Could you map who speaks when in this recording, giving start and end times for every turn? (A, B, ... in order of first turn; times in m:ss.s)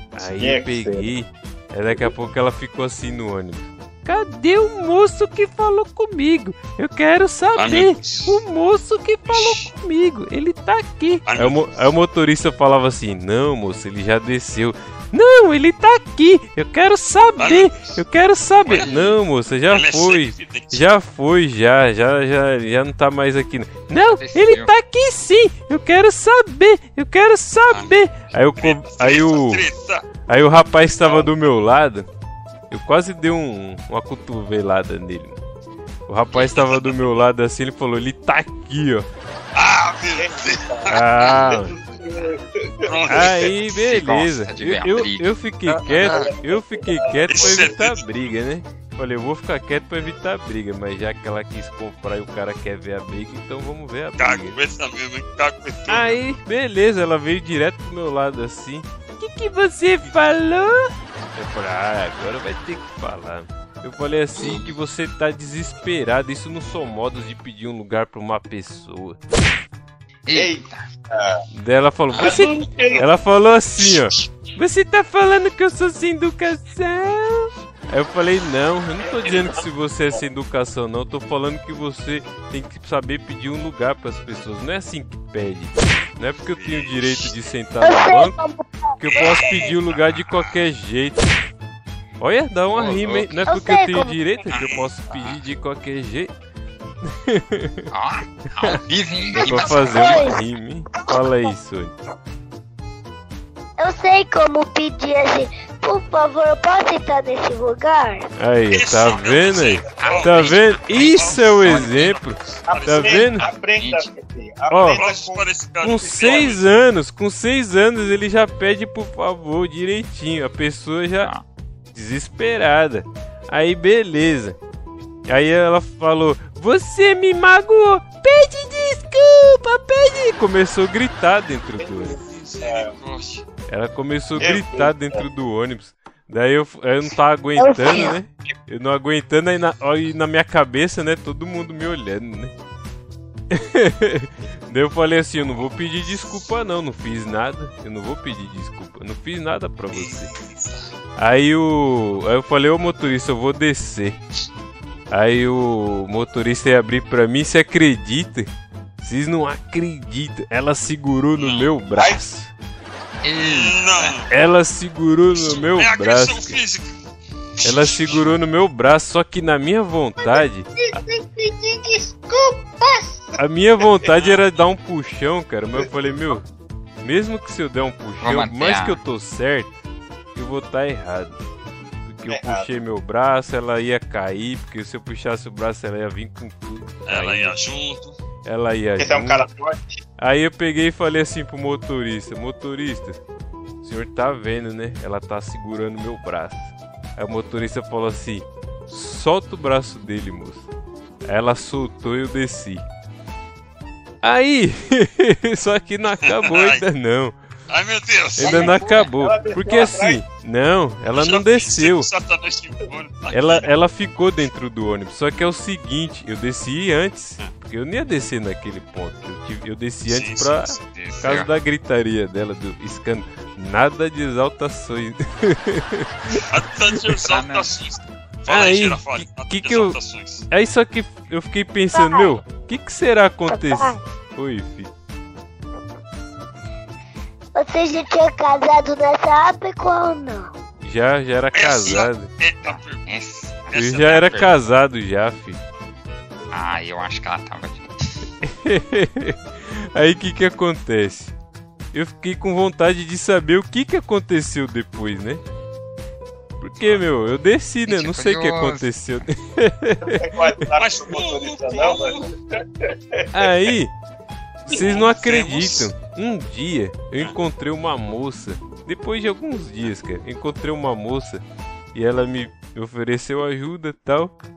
0:00.2-0:29.7 A
0:00.2-0:01.1 B
0:07.5-0:08.4 C
0:09.2-0:09.7 C
0:11.2-0:11.8 C
0:17.4-0:18.0 C
0:18.6-0:19.2 C
0:19.7-0:20.8 C
0:24.0-0:24.7 D
0:27.7-0:28.0 C
0:28.5-0:30.0 C
0:30.2-0:32.1 A
0:31.0-0:31.3 B
0:32.7-0:35.4 A
0:36.1-0:39.1 A
0:36.3-0:37.1 C
0:39.5-0:41.4 C
0:40.2-0:43.5 B
0:40.9-0:41.7 A
0:42.8-0:43.5 C
0:43.1-0:54.6 A
0:43.7-0:45.3 D
0:45.7-0:46.3 C
0:45.8-0:47.7 B
0:47.3-0:48.2 C
0:54.2-0:56.2 C
0:55.9-1:00.8 A
1:01.3-1:09.2 A
1:04.3-1:04.7 C
1:10.2-1:10.8 D
1:10.3-1:11.4 B
1:11.5-1:28.4 A
1:12.1-1:12.9 C
1:12.2-1:13.1 B
1:13.8-1:14.3 C
1:19.0-1:19.6 B
1:26.4-1:27.3 C
1:27.8-1:29.7 E
1:29.0-1:31.4 A
1:29.0-1:30.6 C
1:32.2-1:36.3 A
1:32.7-1:33.5 C
1:33.4-1:34.5 E
1:34.4-1:34.9 C
1:34.5-1:35.4 D
1:37.1-1:37.9 A
1:37.9-1:40.3 D
1:39.3-1:41.9 A
1:39.8-1:41.5 E
1:43.8-1:48.2 E
1:48.4-1:53.4 A
1:48.7-1:53.6 C
1:50.0-1:52.0 D
1:52.7-1:56.5 B
1:53.8-1:54.1 D
1:54.7-1:55.0 A
1:55.0-1:56.6 C
1:55.8-2:01.3 A
2:01.9-2:04.6 A
2:05.3-2:12.2 A
2:11.8-2:12.9 B
2:12.1-2:13.4 C
2:13.7-2:22.5 A
2:14.4-2:15.2 B
2:17.6-2:18.2 E
2:23.5-2:30.3 A
2:29.9-2:30.9 C
2:31.2-2:34.2 A
2:35.1-2:42.5 A
2:41.4-2:42.0 C
2:41.9-2:42.2 B
2:43.2-2:44.2 D
2:43.4-2:44.3 C
2:44.3-2:46.6 A
2:45.3-2:47.0 C
2:47.6-2:48.2 C
2:47.6-2:51.0 A
2:50.9-2:53.4 B
2:53.4-2:56.4 A
2:54.2-2:54.4 C
2:57.0-2:59.8 A
2:58.2-2:59.0 D
3:00.3-3:01.4 A
3:02.0-3:07.6 A
3:02.3-3:02.7 B
3:07.0-3:08.2 C
3:08.4-3:09.5 A
3:09.0-3:10.0 B
3:10.2-3:13.2 A
3:13.8-3:20.7 A
3:21.2-3:22.8 A
3:24.2-3:27.4 A
3:26.2-3:26.8 C
3:27.7-3:28.8 C
3:28.4-3:32.1 A
3:28.4-3:30.2 B
3:28.5-3:29.1 D
3:31.1-3:33.7 C
3:33.3-3:46.4 A
3:40.1-3:40.8 C
3:40.9-3:41.5 D
3:46.5-3:50.4 C
3:47.2-3:47.7 D
3:48.5-3:50.0 A
3:50.5-3:54.9 A
3:51.9-3:52.4 E
3:53.5-3:54.0 E
3:57.5-4:00.5 E
4:00.8-4:02.3 A
4:01.5-4:03.0 C
4:02.6-4:04.5 D
4:03.7-4:04.2 C
4:03.7-4:05.6 A
4:06.5-4:08.1 D
4:08.4-4:09.4 A
4:09.9-4:11.3 A
4:11.9-4:15.4 A
4:16.6-4:20.2 A
4:16.7-4:17.0 C
4:17.9-4:18.9 D
4:20.1-4:22.3 B
4:20.8-4:22.2 C
4:22.9-4:23.6 B
4:23.3-4:23.9 A
4:24.6-4:34.4 A
4:24.7-4:25.9 C